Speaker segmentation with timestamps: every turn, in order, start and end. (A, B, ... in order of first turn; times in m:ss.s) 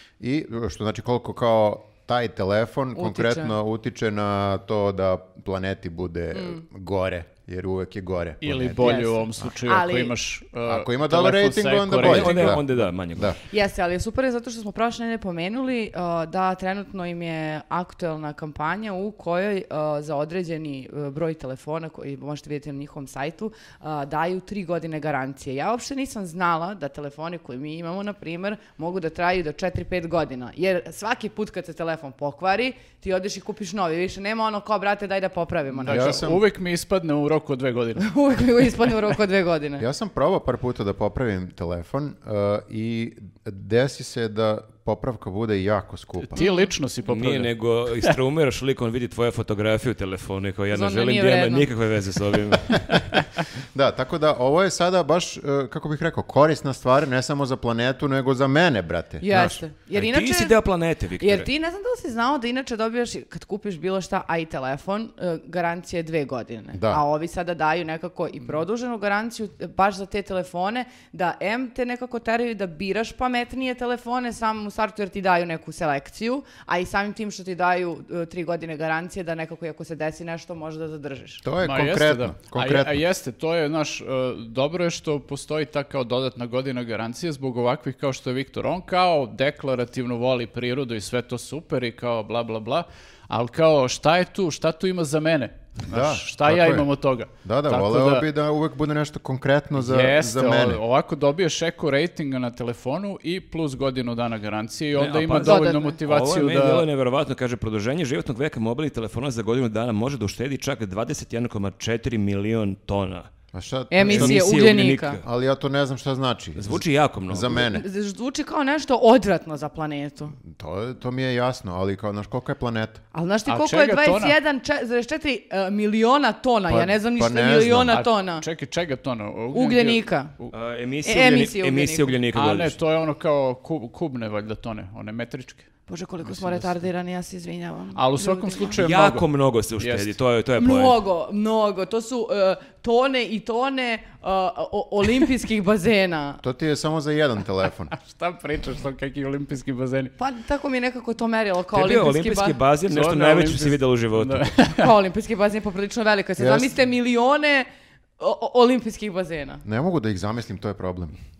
0:00.2-0:09.4 A
0:03.0-0:03.5 B
0:06.3-0:06.6 B
0:08.4-0:12.6 C
0:08.8-0:10.2 B
0:10.6-0:13.4 A
0:11.9-0:13.4 D
0:13.4-0:36.2 B
0:35.8-0:38.0 C
0:35.8-0:36.4 A
0:38.0-0:39.8 B
0:39.8-0:46.4 A
0:46.2-0:48.2 C
0:46.4-0:46.7 B
0:47.0-0:53.2 D
0:50.7-0:51.7 B
0:53.7-0:59.6 A
0:59.2-1:00.6 B
0:59.9-1:01.5 D
1:01.2-1:21.4 B
1:06.7-1:07.0 A
1:21.4-1:23.0 A
1:21.6-1:38.2 C
1:35.8-1:36.9 A
1:37.4-1:40.8 A
1:39.7-1:46.9 C
1:44.9-1:53.3 D
1:45.4-1:46.0 B
1:53.5-1:54.5 A
1:53.9-1:55.2 B
1:54.0-1:55.2 D
1:55.2-1:57.8 A
1:56.6-1:57.6 D
1:57.5-2:00.4 B
2:00.4-2:03.0 A
2:03.1-2:08.4 B
2:03.4-2:04.4 C
2:06.7-2:08.0 A
2:07.9-2:10.5 C
2:09.5-2:10.3 B
2:10.5-2:12.8 D
2:11.0-2:12.2 B
2:12.3-2:15.7 C
2:15.9-2:18.8 B
2:16.2-2:16.8 C
2:17.9-2:19.2 C
2:18.8-2:21.0 D
2:19.8-2:20.1 C
2:20.6-2:26.4 B
2:26.4-2:27.9 A
2:28.0-2:30.1 C
2:30.2-2:32.6 B
2:31.7-2:34.5 D
2:32.9-2:34.9 C
2:34.7-2:37.7 B
2:36.4-2:36.7 A
2:38.2-2:39.6 B
2:39.6-2:41.2 A